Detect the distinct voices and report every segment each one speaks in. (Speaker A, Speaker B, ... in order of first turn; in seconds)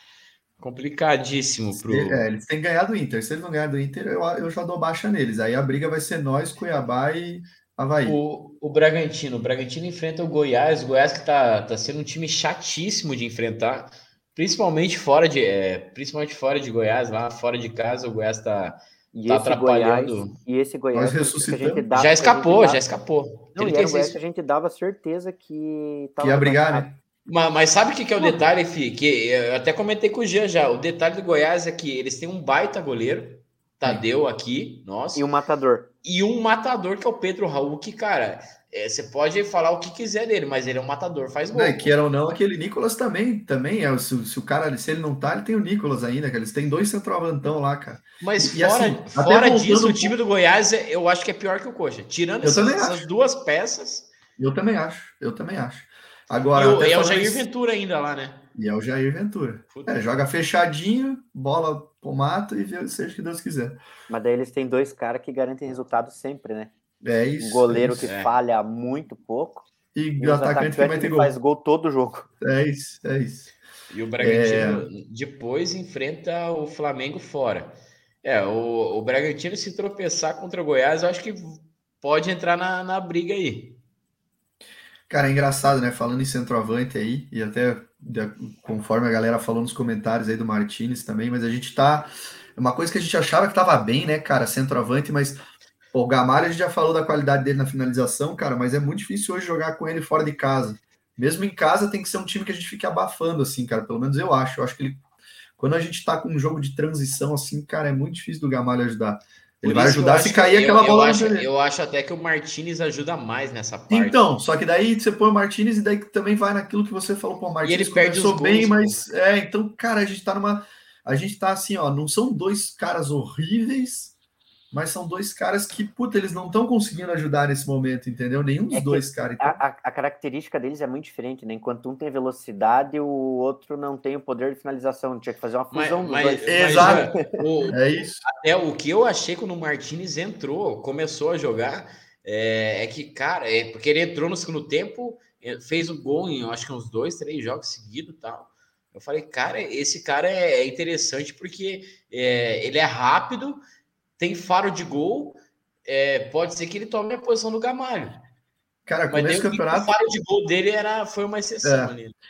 Speaker A: 0.6-2.2, 8.1-20.3, 21.9-24.1, 27.3-35.2, 36.0-41.9, 48.2-54.1, 56.5-58.4, 59.7-60.0, 68.0-68.3, 73.9-83.8, 109.6-114.2, 117.6-119.0, 135.7-153.6, 154.2-158.2, 159.1-162.1
Speaker B: 1.7-8.2, 20.9-21.8, 26.2-26.9, 41.5-50.1, 52.4-53.0, 54.4-57.5, 58.5-63.8, 67.0-68.0, 69.9-71.3, 72.4-73.5, 74.2-74.9, 85.1-95.4, 95.9-105.0, 105.6-111.5, 113.9-124.1, 124.7-129.6, 136.5-137.1, 137.7-138.2, 158.8-160.0, 161.6-161.9
Speaker C: 19.1-22.8, 23.5-26.9, 35.1-35.9, 64.1-66.7, 67.4-69.7, 70.2-72.3, 128.7-137.3